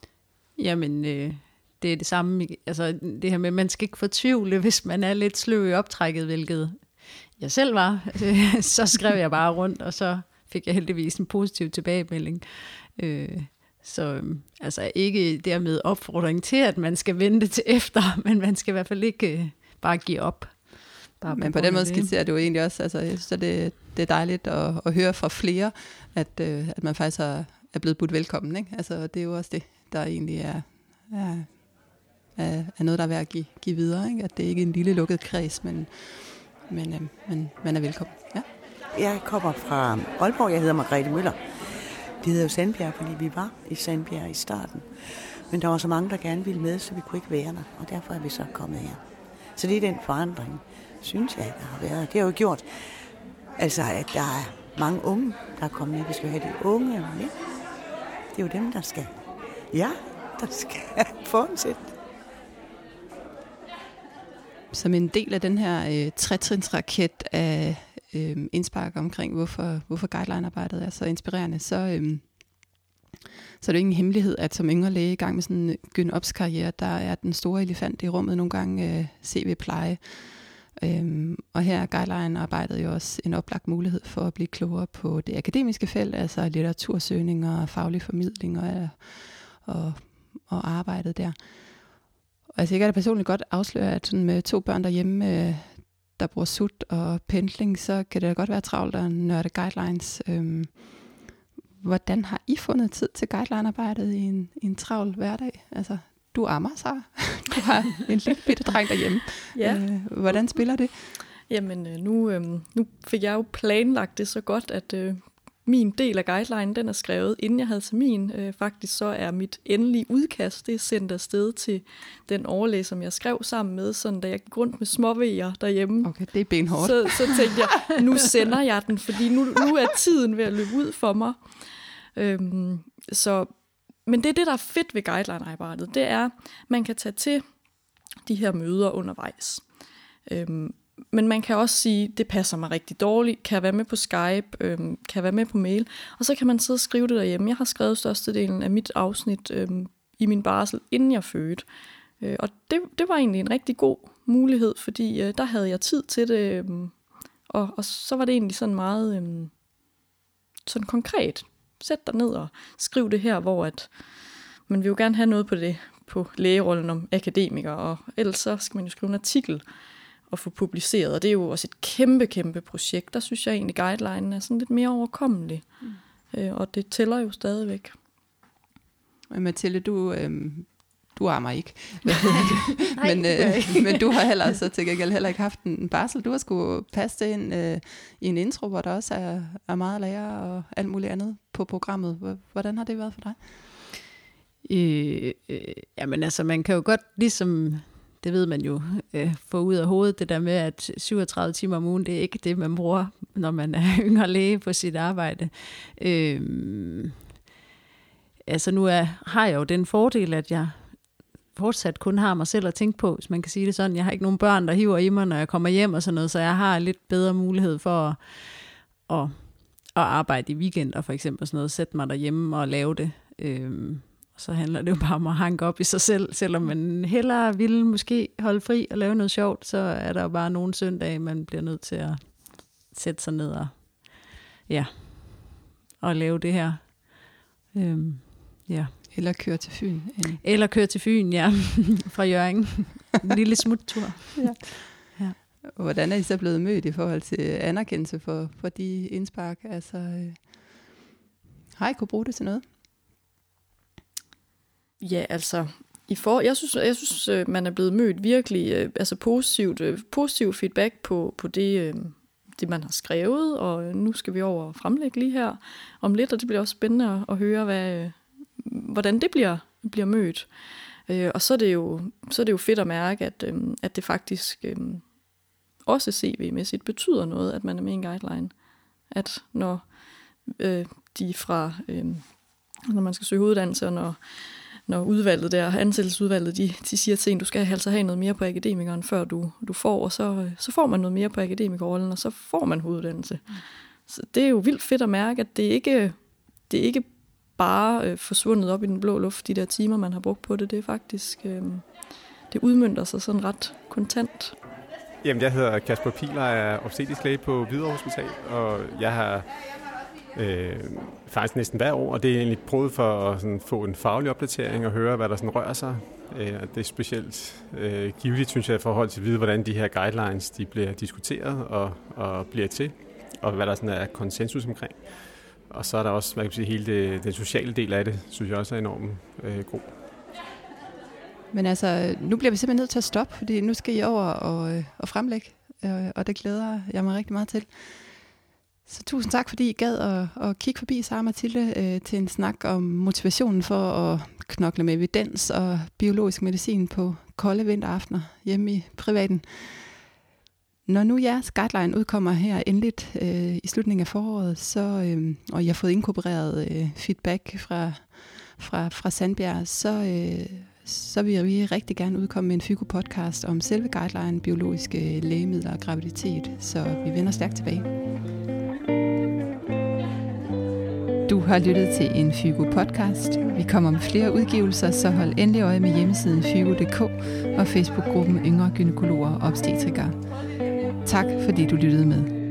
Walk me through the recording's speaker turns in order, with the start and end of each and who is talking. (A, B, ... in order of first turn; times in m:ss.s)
0:00.6-0:22.1 A
0:21.3-0:38.5 B
0:38.9-0:57.4 C
0:58.3-0:59.2 C
0:59.7-1:02.0 C
1:04.7-1:12.8 B
1:13.6-1:41.3 B
1:41.8-1:51.0 B
1:49.5-2:13.5 D
2:06.0-2:07.5 B
2:14.0-2:17.4 D
2:18.2-2:19.7 D
2:20.3-2:31.7 D
2:32.2-2:39.5 D
2:40.7-2:44.0 D
2:44.7-2:49.6 D
2:50.3-2:55.8 D
2:56.3-2:58.0 D
2:59.3-3:13.4 B
3:03.0-3:04.2 A
3:14.6-3:27.1 A
3:28.5-3:59.0 A
3:59.1-4:00.4 B
4:00.4-4:05.4 A
4:04.4-4:05.2 B
4:05.7-4:11.0 B
4:11.8-4:12.6 B
4:15.0-4:30.5 D
4:31.1-4:35.1 D
4:35.8-4:38.6 D
4:39.1-5:04.6 D
5:05.2-5:09.6 E
5:10.3-5:30.0 E
5:31.5-5:38.2 B
5:38.8-5:50.0 B
5:50.9-6:07.9 B
6:11.3-6:22.3 B